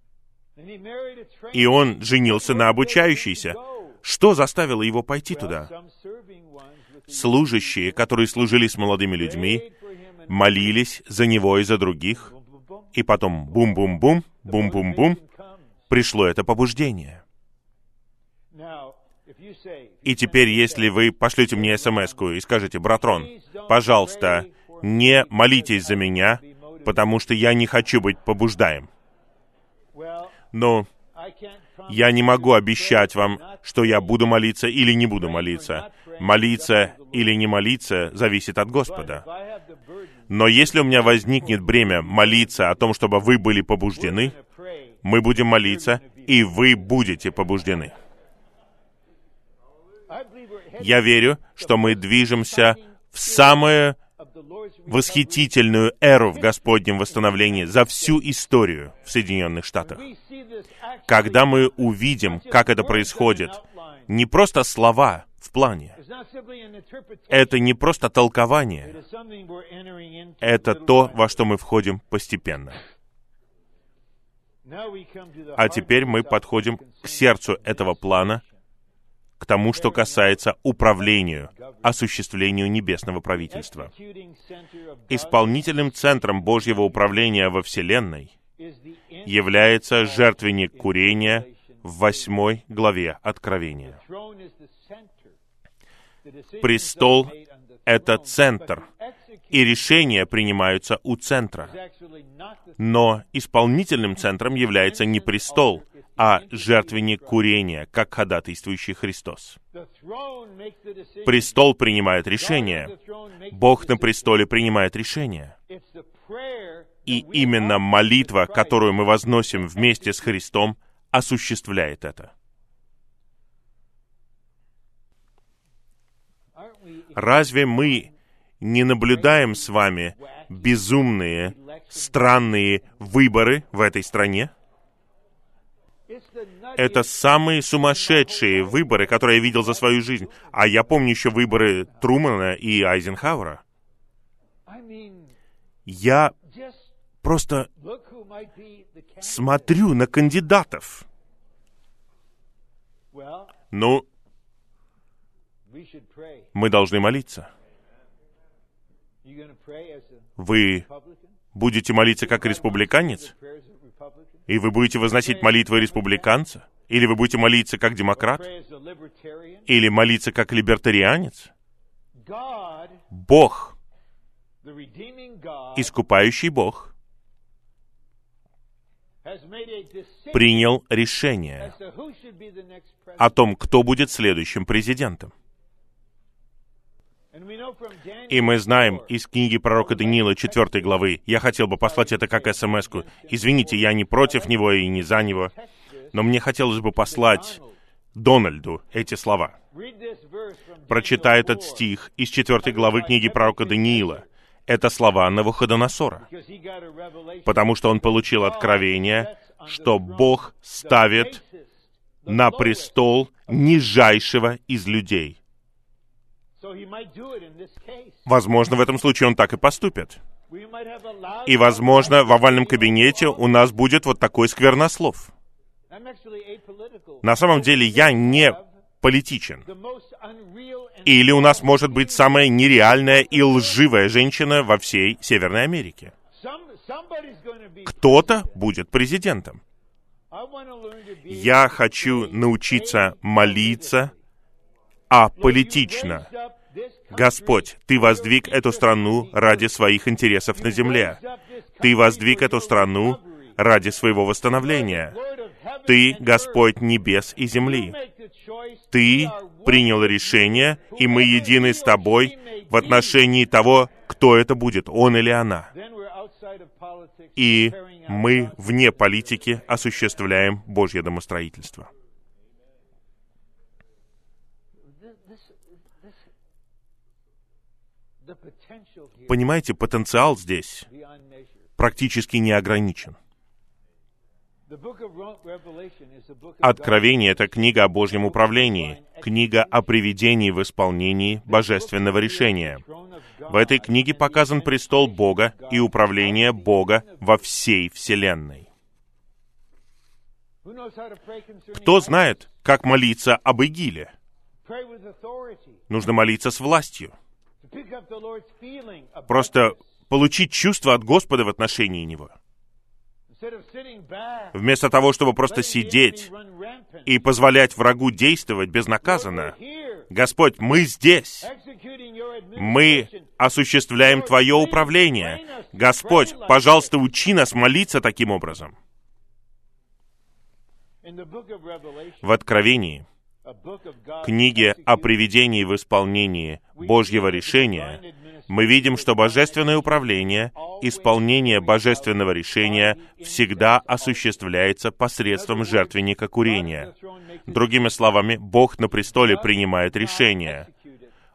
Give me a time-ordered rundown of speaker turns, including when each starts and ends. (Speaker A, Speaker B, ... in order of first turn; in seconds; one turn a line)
Speaker A: 0.6-4.0
Speaker B: 1.5-5.7
Speaker A: 5.3-8.2
Speaker B: 7.1-9.7
Speaker A: 9.1-10.8
Speaker B: 10.3-12.3
Speaker A: 12.1-12.9
Speaker B: 12.9-15.2
Speaker A: 13.5-15.8
Speaker B: 15.9-17.2
Speaker A: 18.5-22.3
Speaker B: 20.0-28.9
Speaker A: 22.9-27.1
Speaker A: 29.9-30.5
Speaker B: 30.5-30.9
Speaker A: 31.1-34.4
Speaker B: 31.9-39.2
Speaker A: 35.1-37.5
Speaker A: 38.8-43.1
Speaker B: 40.3-44.3
Speaker A: 43.9-47.6
Speaker B: 45.0-47.9
Speaker A: 50.1-55.6
Speaker B: 50.8-54.0
Speaker B: 54.9-60.0
Speaker A: 56.2-58.2
Speaker A: 59.8-64.1
Speaker B: 61.1-63.6
Speaker B: 64.1-66.0
Speaker A: 66.0-67.6
Speaker B: 67.3-69.0
Speaker A: 68.8-71.5
Speaker B: 70.4-72.8
Speaker A: 74.6-78.5
Speaker B: 75.5-78.4
Speaker B: 79.4-83.9
Speaker A: 79.7-80.4
Speaker A: 81.0-81.9
Speaker A: 83.5-87.5
Speaker B: 85.1-88.3
Speaker A: 88.6-92.3
Speaker B: 89.2-94.0
Speaker A: 93.8-95.4
Speaker A: 96.2-99.8
Speaker B: 96.6-97.3
Speaker B: 97.8-98.8
Speaker B: 99.5-101.7
Speaker A: 101.6-103.0
Speaker B: 102.8-109.6
Speaker A: 104.6-107.5
Speaker A: 109.7-111.7
Speaker B: 111.2-112.9
Speaker A: 112.3-114.5
Speaker B: 113.5-115.5
Speaker A: 115.7-120.5
Speaker B: 117.0-122.3
Speaker A: 126.5-128.1
Speaker B: 127.2-128.1
Speaker B: 128.6-134.5
Speaker A: 129.1-133.0
Speaker A: 136.1-140.9
Speaker B: 136.8-143.6
Speaker A: 144.7-145.3
Speaker B: 145.8-146.3
Speaker A: 146.4-146.9
Speaker B: 147.2-147.7
Speaker A: 147.7-149.9
Speaker B: 149.2-151.1
Speaker A: 153.1-153.6
Speaker B: 153.7-154.1
Speaker A: 155.7-156.5
Speaker B: 156.5-157.5
Speaker A: 159.2-161.4
Speaker B: 160.4-160.8
Speaker B: 161.5-163.3
Speaker A: 162.2-166.4
Speaker B: 164.5-168.4
Speaker A: 168.1-169.7
Speaker B: 169.7-171.5
Speaker A: 172.2-173.1
Speaker B: 173.1-173.8
Speaker A: 174.6-175.9
Speaker B: 175.7-176.9
Speaker A: 179.2-180.7
Speaker B: 180.3-181.7
Speaker A: 181.6-183.9
Speaker B: 183.2-185.3
Speaker A: 187.3-189.1
Speaker B: 188.3-195.5
Speaker A: 189.7-191.1
Speaker A: 191.8-196.3
Speaker B: 196.1-197.6
Speaker A: 196.9-197.8
Speaker B: 198.1-199.6
Speaker A: 199.7-201.9
Speaker B: 200.9-206.2
Speaker A: 202.6-204.3
Speaker A: 206.2-213.5
Speaker B: 207.4-211.4
Speaker B: 212.3-215.4
Speaker A: 216.6-218.3
Speaker B: 218.2-220.2
Speaker A: 220.5-223.7
Speaker B: 221.4-225.3
Speaker A: 225.9-228.7
Speaker B: 227.2-229.7
Speaker A: 229.6-233.9
Speaker B: 231.0-236.1
Speaker A: 236.3-238.6
Speaker B: 237.8-239.6
Speaker A: 240.3-244.2
Speaker B: 241.3-244.1
Speaker B: 245.1-246.3
Speaker A: 245.3-249.8
Speaker B: 247.1-251.2
Speaker A: 250.5-253.6
Speaker B: 251.8-255.2
Speaker A: 254.5-256.8
Speaker B: 255.9-258.0
Speaker A: 257.5-263.2
Speaker B: 258.9-265.7
Speaker A: 265.7-269.8
Speaker B: 267.4-271.9
Speaker A: 274.8-276.2
Speaker A: 278.2-279.4
Speaker B: 279.3-280.9
Speaker A: 280.9-281.7
Speaker B: 281.8-283.2
Speaker A: 284.7-290.0
Speaker B: 286.6-292.8
Speaker A: 291.4-297.5
Speaker B: 293.5-298.7
Speaker A: 300.6-302.5
Speaker B: 301.7-304.1
Speaker A: 304.6-305.9
Speaker B: 305.9-307.1
Speaker A: 307.6-309.9
Speaker B: 309.3-312.4
Speaker A: 313.3-314.6
Speaker B: 314.5-316.3
Speaker A: 315.4-317.4
Speaker B: 317.1-319.5
Speaker A: 319.0-320.1
Speaker B: 320.1-321.5
Speaker A: 321.4-323.4
Speaker B: 322.5-328.8
Speaker A: 324.0-326.9
Speaker A: 331.0-332.4
Speaker B: 332.2-333.1
Speaker A: 333.4-335.3
Speaker B: 334.2-346.9
Speaker A: 336.8-344.4
Speaker A: 345.3-348.0
Speaker B: 347.5-350.7
Speaker A: 349.0-351.1